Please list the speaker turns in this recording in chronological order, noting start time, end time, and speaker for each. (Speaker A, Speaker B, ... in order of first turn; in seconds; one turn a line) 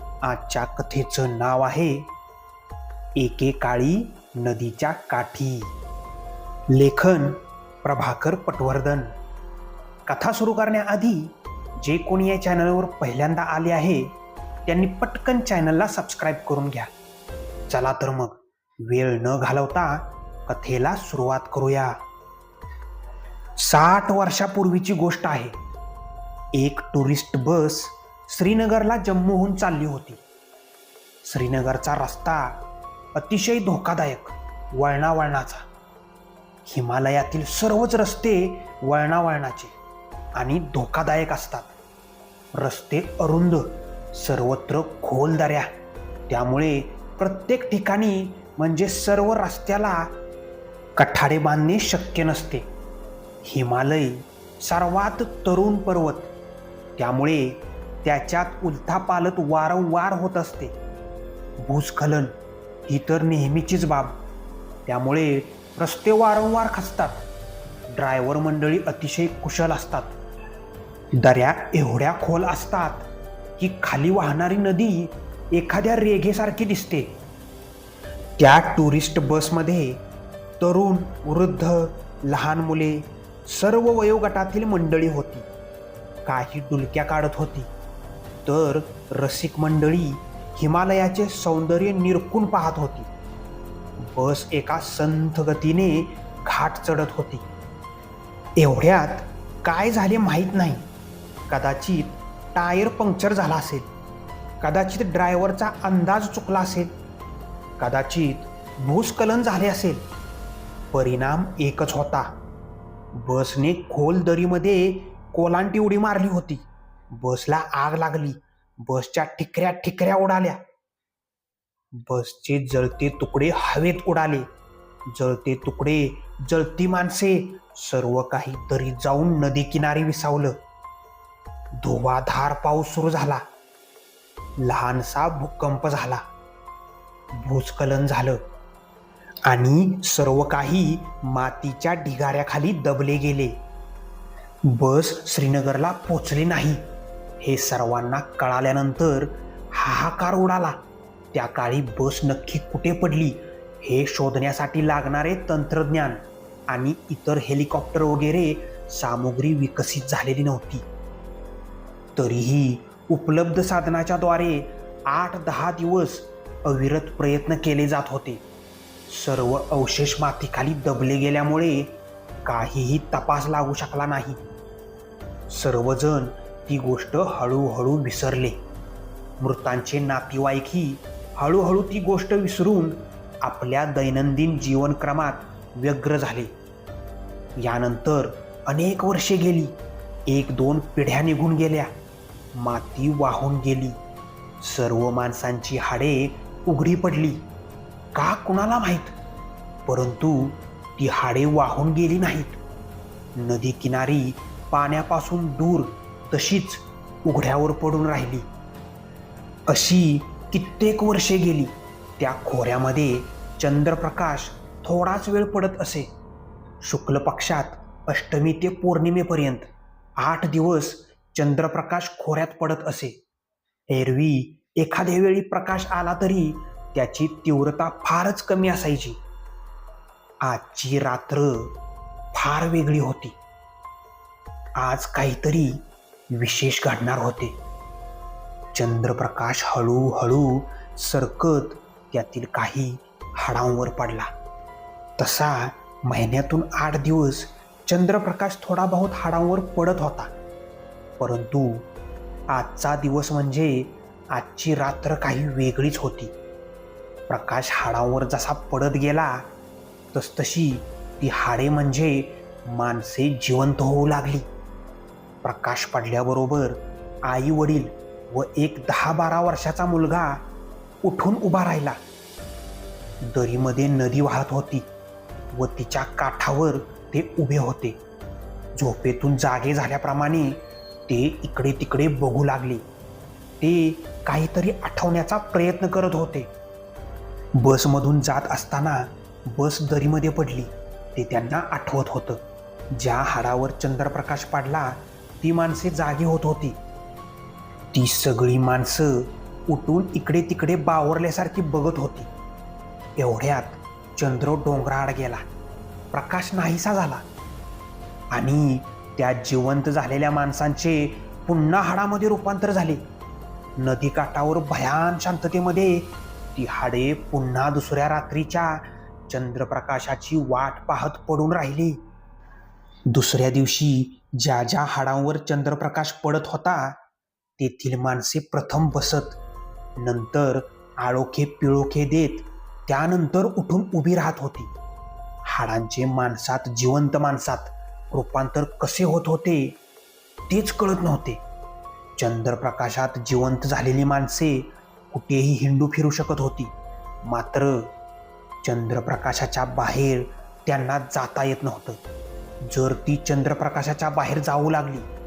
Speaker A: 0.2-2.1
Speaker A: 3.2-5.7
Speaker A: 6.7-9.1
Speaker A: 10.1-14.2
Speaker A: 14.7-16.9
Speaker A: 17.7-22.0
Speaker A: 23.6-25.5
Speaker A: 26.5-30.2
Speaker A: 31.2-32.6
Speaker A: 33.1-35.6
Speaker A: 36.7-39.7
Speaker A: 40.4-41.7
Speaker A: 42.5-45.7
Speaker A: 46.3-50.1
Speaker A: 51.0-52.7
Speaker A: 53.4-56.3
Speaker A: 57.0-60.8
Speaker A: 61.6-62.3
Speaker A: 62.9-64.2
Speaker A: 64.9-67.2
Speaker A: 67.9-70.2
Speaker A: 71.2-73.1
Speaker A: 73.6-77.2
Speaker A: 78.4-80.0
Speaker A: 80.6-85.5
Speaker A: 86.3-87.7
Speaker A: 88.5-93.1
Speaker A: 94.0-97.5
Speaker A: 98.6-100.9
Speaker A: 101.5-103.9
Speaker A: 104.6-106.9
Speaker A: 107.8-110.1
Speaker A: 110.9-112.3
Speaker A: 113.1-120.6
Speaker A: 121.9-124.5
Speaker A: 125.1-130.6
Speaker A: 131.8-133.4
Speaker A: 134.6-136.2
Speaker A: 137.3-138.4
Speaker A: 139.4-143.6
Speaker A: 144.7-146.8
Speaker A: 147.4-150.8
Speaker A: 151.3-160.9
Speaker A: 162.2-168.4
Speaker A: 169.1-174.4
Speaker A: 175.5-178.6
Speaker A: 179.4-186.5
Speaker A: 187.6-189.8
Speaker A: 190.3-191.9
Speaker A: 192.5-194.0
Speaker A: 194.6-197.5
Speaker A: 198.2-199.2
Speaker A: 199.9-202.6
Speaker A: 203.4-208.5
Speaker A: 209.7-216.1
Speaker A: 216.8-223.2
Speaker A: 223.9-229.2
Speaker A: 230.4-231.8
Speaker A: 232.3-233.4
Speaker A: 234.8-237.6
Speaker A: 238.7-244.3
Speaker A: 245.2-250.3
Speaker A: 251.2-251.9
Speaker A: 252.5-256.4
Speaker A: 257.3-259.5
Speaker A: 260.1-264.5
Speaker A: 265.4-270.4
Speaker A: 271.0-272.0
Speaker A: 273.2-274.9
Speaker A: 275.5-278.0
Speaker A: 278.8-282.8
Speaker A: 283.6-286.5
Speaker A: 287.6-292.4
Speaker A: 292.9-296.8
Speaker A: 297.9-302.3
Speaker A: 303.2-305.4
Speaker A: 306.1-307.2
Speaker A: 308.3-313.0
Speaker A: 313.8-322.1
Speaker A: 323.1-327.0
Speaker A: 327.6-329.4
Speaker A: 330.0-334.7
Speaker A: 335.4-339.8
Speaker A: 340.5-341.4
Speaker A: 342.2-346.7
Speaker A: 347.2-347.9
Speaker A: 348.6-352.0
Speaker A: 352.6-355.1